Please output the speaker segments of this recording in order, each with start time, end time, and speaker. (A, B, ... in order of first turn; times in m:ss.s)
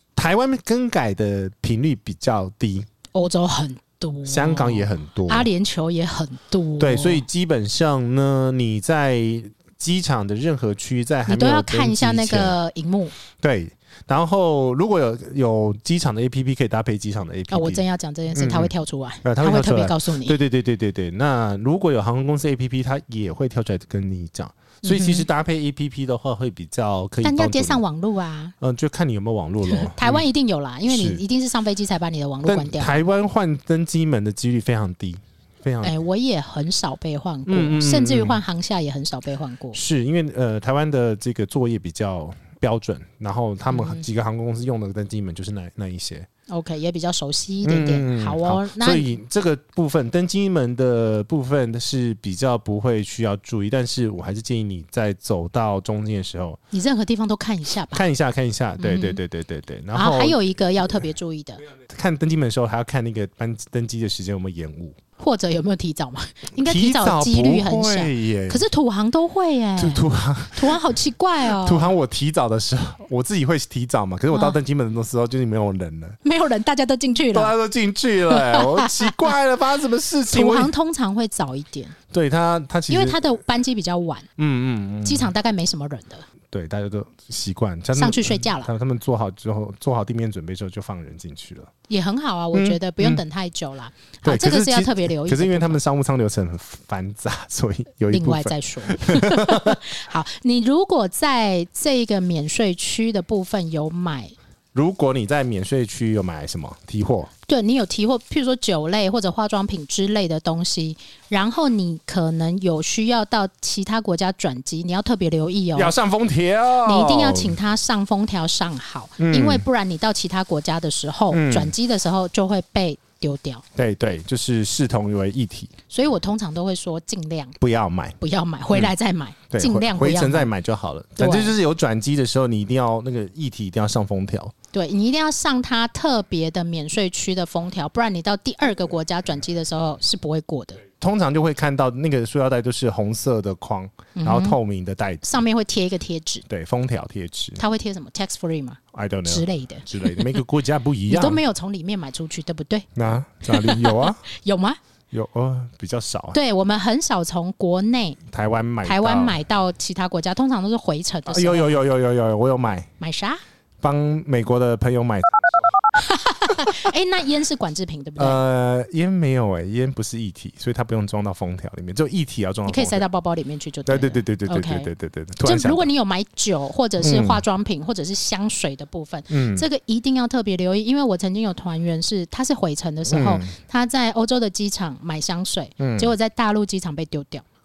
0:00.2-0:02.9 A
0:03.1-0:07.2 B
0:04.3-0:05.5 A
0:06.8-0:12.6 A
0:11.3-0:13.1 B
0:13.4-0:18.7 A
0:17.5-0:20.4 B
0:19.2-0:27.8 A
0:24.8-0:25.3 B
0:27.2-0:28.5 B
0:28.6-0:30.2 A
0:29.7-0:33.0 B
0:30.9-0:31.2 A
0:32.4-0:35.9 A
0:35.8-0:39.8 B
0:37.5-0:38.4 A
0:39.7-0:46.3 A
0:43.7-0:44.0 B
0:46.5-0:49.1 B
0:47.6-0:56.6 A
0:56.7-0:58.1 B
0:57.9-1:00.4 A
0:58.8-0:59.2 B
0:59.9-1:01.6 B
1:01.8-1:05.0 A
1:05.2-1:11.9 B
1:06.6-1:08.6 A
1:09.8-1:11.0 A
1:11.5-1:16.2 A
1:14.3-1:14.6 B
1:16.2-1:17.5 B
1:17.3-1:20.7 A
1:18.3-1:19.3 B
1:20.3-1:22.0 B
1:22.1-1:23.2 A
1:22.9-1:24.3 B
1:24.4-1:25.3 A
1:25.0-1:26.2 B
1:26.5-1:31.7 A
1:28.0-1:28.7 B
1:31.9-1:35.8 B
1:32.5-1:33.2 A
1:34.2-1:39.8 A
1:38.1-1:44.3 B
1:44.7-1:47.3 A
1:47.5-1:55.9 B
1:55.8-1:57.6 A
1:56.8-2:03.6 B
1:59.2-1:59.6 A
2:01.3-2:01.7 A
2:03.8-2:05.7 A
2:05.9-2:07.6 B
2:07.6-2:08.2 A
2:08.2-2:10.5 B
2:09.5-2:14.5 A
2:11.2-2:11.5 B
2:14.7-2:20.8 B
2:21.0-2:25.3 A
2:24.2-2:24.6 B
2:25.2-2:26.5 B
2:26.5-2:27.6 A
2:27.6-2:30.4 B
2:28.9-2:31.4 A
2:31.1-2:32.9 B
2:33.0-2:34.2 A
2:33.5-2:34.8 B
2:35.1-2:36.4 A
2:36.3-2:38.2 B
2:38.3-2:39.4 A
2:38.8-2:41.8 B
2:41.3-2:42.9 A
2:43.0-2:43.4 B
2:43.8-2:45.9 A
2:46.0-2:48.4 B
2:46.5-2:46.9 A
2:48.2-2:53.0 A
2:52.7-2:54.9 B
2:53.9-2:55.9 A
2:55.4-3:07.4 B
2:57.0-2:57.4 A
2:59.3-2:59.6 A
3:03.1-3:03.5 A
3:05.8-3:06.1 A